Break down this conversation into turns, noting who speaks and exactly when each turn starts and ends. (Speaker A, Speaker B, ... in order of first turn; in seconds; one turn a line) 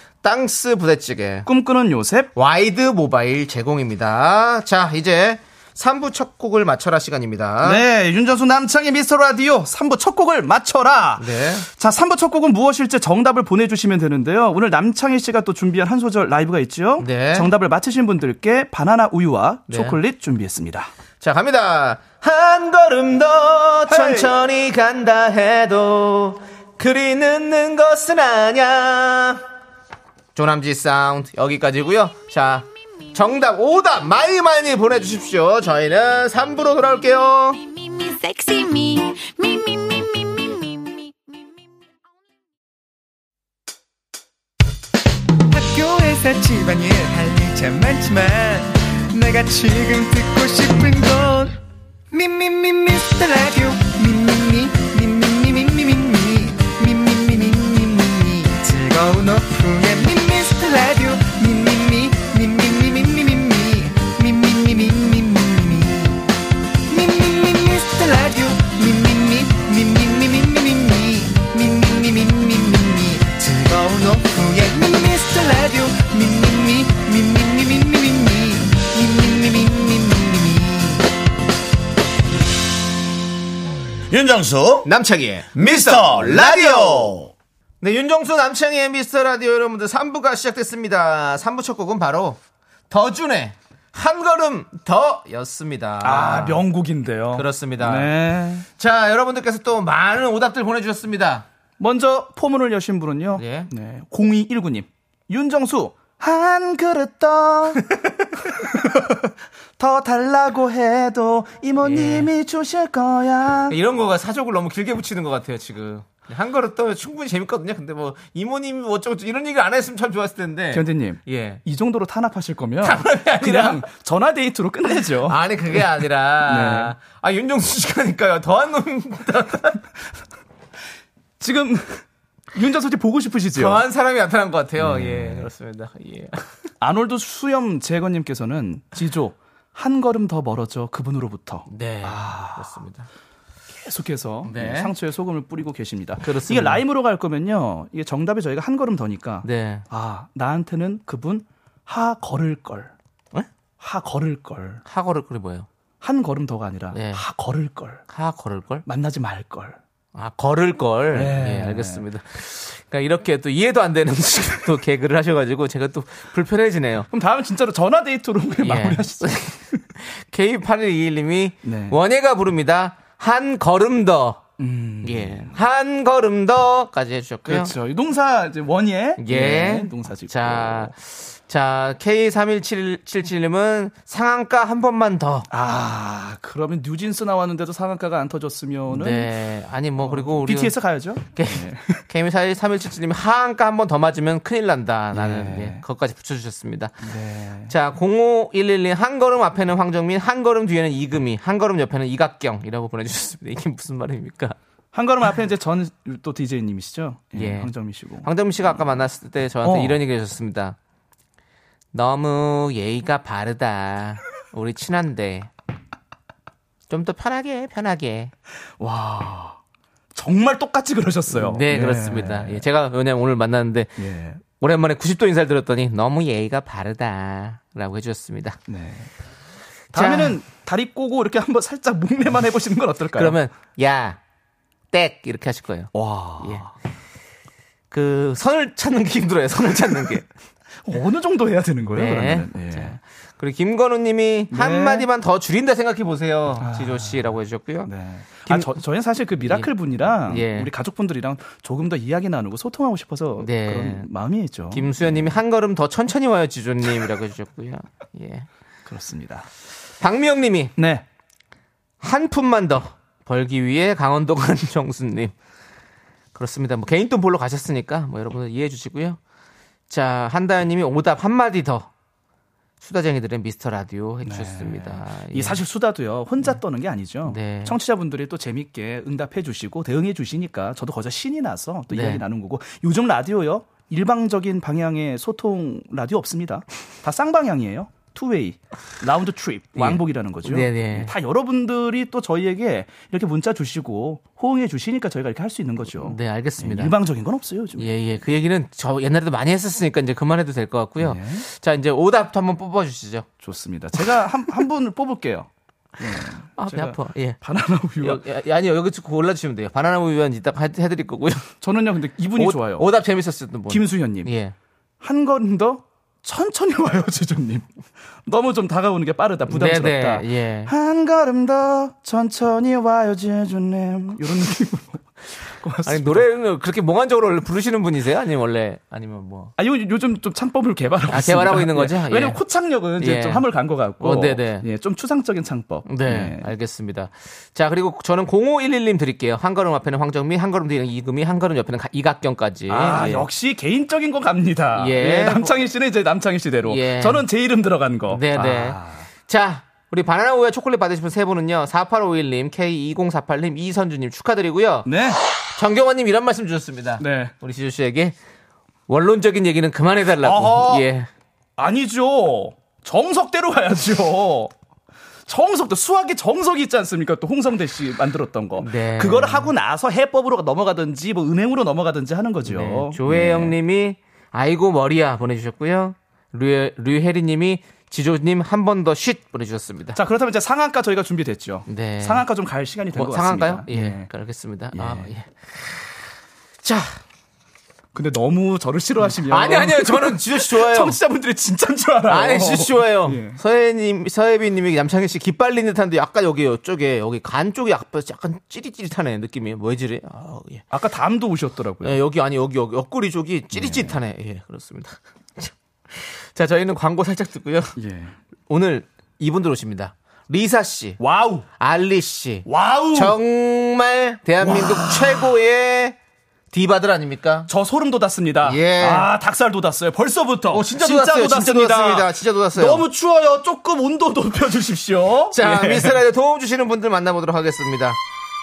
Speaker A: 0.2-1.5
Speaker B: 1.4-2.3
Speaker A: 2.4-7.8
Speaker B: 7.6-20.9
Speaker A: 11.2-11.7
Speaker A: 17.0-17.5
Speaker A: 19.7-20.0
Speaker A: 21.2-29.4
Speaker B: 23.9-24.3
Speaker A: 30.4-37.6
Speaker C: 37.6-41.1
Speaker D: 45.5-51.6
Speaker D: 52.1-66.2
Speaker D: 66.9-81.1
Speaker E: 84.1-84.9
Speaker A: 84.8-87.2
Speaker E: 85.6-87.3
Speaker A: 87.8-92.4
Speaker A: 92.9-96.7
Speaker B: 96.0-98.7
Speaker A: 97.3-98.1
Speaker A: 98.8-101.5
Speaker B: 101.8-107.8
Speaker A: 103.4-103.7
Speaker B: 108.6-113.8
Speaker A: 111.8-112.3
Speaker A: 113.7-121.6
Speaker B: 120.7-125.4
Speaker A: 122.8-123.8
Speaker A: 125.2-129.8
Speaker B: 126.5-127.0
Speaker B: 131.4-133.8
Speaker A: 133.5-136.4
Speaker B: 134.8-135.5
Speaker B: 136.8-142.7
Speaker A: 141.7-143.1
Speaker B: 143.8-152.9
Speaker A: 144.4-144.9
Speaker A: 146.2-146.8
Speaker A: 149.4-149.9
Speaker B: 153.8-154.8
Speaker A: 154.9-155.7
Speaker B: 156.0-158.0
Speaker A: 156.9-157.2
Speaker A: 158.1-158.8
Speaker B: 158.9-159.8
Speaker A: 160.2-167.1
Speaker B: 161.1-162.0
Speaker B: 167.1-169.6
Speaker A: 168.6-174.4
Speaker B: 171.6-172.0
Speaker B: 174.6-175.6
Speaker A: 175.0-177.7
Speaker B: 177.5-180.9
Speaker A: 179.2-185.5
Speaker B: 185.5-189.3
Speaker A: 188.9-197.1
Speaker B: 190.0-192.0
Speaker B: 195.1-195.8
Speaker B: 197.0-197.7
Speaker A: 197.7-204.6
Speaker B: 204.9-208.3
Speaker A: 207.3-210.8
Speaker B: 209.6-210.0
Speaker A: 211.9-215.5
Speaker A: 216.9-218.3
Speaker B: 218.8-219.6
Speaker B: 220.2-222.6
Speaker A: 221.3-228.6
Speaker B: 224.0-224.4
Speaker B: 228.7-229.1
Speaker A: 229.9-230.4
Speaker B: 229.9-233.4
Speaker A: 233.2-234.2
Speaker A: 234.9-236.7
Speaker B: 235.9-236.7
Speaker A: 237.9-240.3
Speaker B: 240.9-243.0
Speaker A: 241.9-247.9
Speaker B: 244.5-245.1
Speaker B: 246.6-247.3
Speaker B: 247.9-254.9
Speaker A: 248.5-248.7
Speaker A: 249.4-250.7
Speaker A: 253.4-254.1
Speaker A: 254.7-258.5
Speaker B: 258.9-259.5
Speaker A: 260.0-260.8
Speaker B: 260.8-261.1
Speaker A: 262.0-265.3
Speaker A: 266.4-269.2
Speaker A: 269.9-271.9
Speaker A: 272.8-275.6
Speaker B: 274.2-297.9
Speaker A: 277.2-277.8
Speaker A: 281.9-282.2
Speaker A: 289.8-291.1
Speaker A: 296.0-296.9
Speaker A: 297.8-303.3
Speaker B: 301.0-301.5
Speaker B: 303.4-308.2
Speaker A: 306.6-307.4
Speaker A: 308.0-311.5
Speaker B: 311.6-312.9
Speaker A: 312.4-314.6
Speaker B: 313.7-314.3
Speaker B: 315.0-317.7
Speaker B: 318.3-326.3
Speaker A: 319.5-320.7
Speaker A: 325.9-329.5
Speaker B: 329.6-336.5
Speaker A: 331.1-332.4
Speaker A: 333.0-333.5
Speaker A: 334.0-334.7
Speaker A: 335.9-343.3
Speaker B: 342.7-349.1
Speaker A: 344.7-345.6
Speaker A: 346.7-347.3
Speaker A: 348.1-354.9
Speaker B: 354.9-355.2
Speaker A: 355.4-358.2
Speaker B: 357.0-357.3
Speaker A: 358.9-361.1
Speaker B: 360.2-360.9
Speaker B: 361.6-364.5
Speaker B: 365.3-373.6
Speaker A: 368.6-369.5
Speaker A: 372.4-380.0
Speaker B: 380.0-384.1
Speaker A: 381.7-382.3
Speaker A: 382.9-386.1
Speaker B: 384.7-385.1
Speaker A: 386.6-387.0
Speaker B: 387.9-393.4
Speaker A: 389.1-391.0
Speaker A: 392.1-400.6
Speaker B: 400.7-402.0
Speaker A: 401.8-407.8
Speaker B: 403.6-404.0
Speaker B: 407.8-408.2
Speaker A: 408.5-411.0
Speaker B: 411.0-411.4
Speaker A: 411.6-416.0
Speaker B: 412.5-413.2
Speaker B: 414.4-415.2
Speaker A: 416.5-417.5
Speaker B: 417.5-426.0
Speaker A: 418.4-419.1
Speaker A: 420.5-422.9
Speaker A: 425.3-428.0